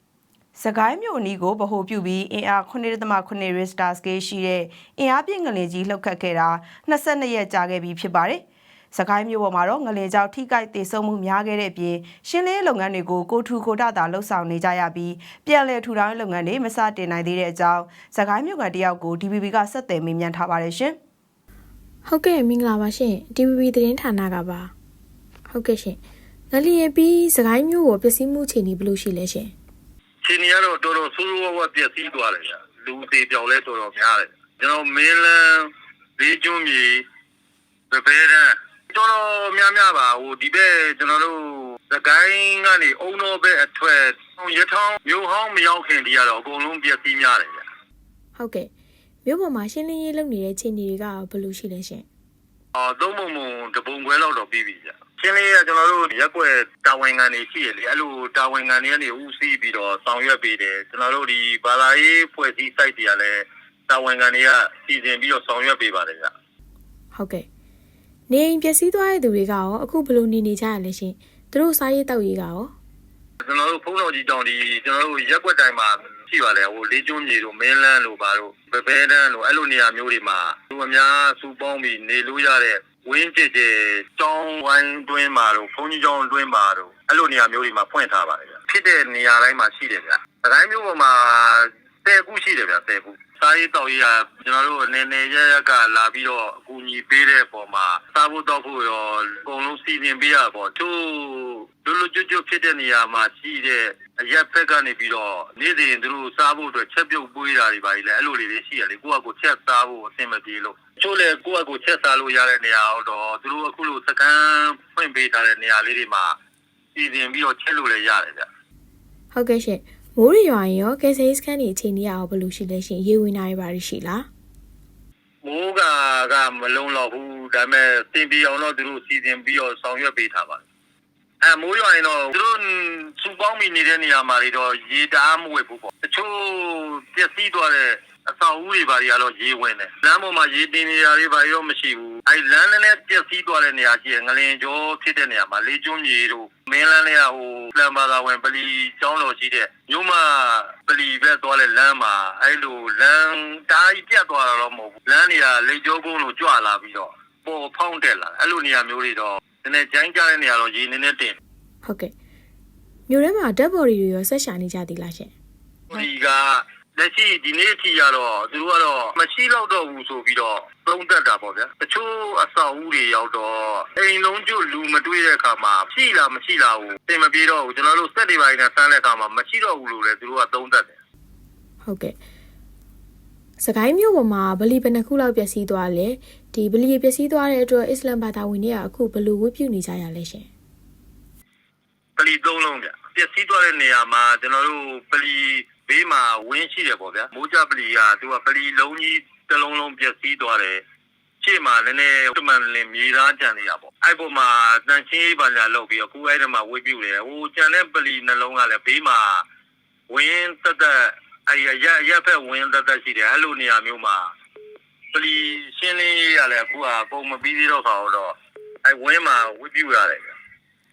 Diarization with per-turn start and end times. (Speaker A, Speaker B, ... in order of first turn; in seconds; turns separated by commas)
Speaker A: 0.6-20.9, Speaker B: 22.0-24.7, Speaker B: 25.5-26.0, Speaker B: 26.5-29.5, Speaker C: 30.2-37.0, Speaker C: 37.9-47.6, Speaker B: 48.4-48.7, Speaker B: 49.2-52.0, Speaker C: 52.7-66.3, Speaker B: 67.1-67.5, Speaker B: 68.3-72.7, Speaker C: 73.4-116.3, Speaker C: 116.9-118.5, Speaker B: 119.3-124.3, Speaker C: 125.4-130.6, Speaker C: 131.4-161.4, Speaker B: 161.8-162.1, Speaker B: 163.1-165.3, Speaker C: 165.9-180.9, Speaker B: 181.8-182.1, Speaker B: 183.6-190.5, Speaker C: 192.2-200.8, Speaker C: 201.4-209.4, Speaker C: 210.1-214.3, Speaker C: 215.1-220.3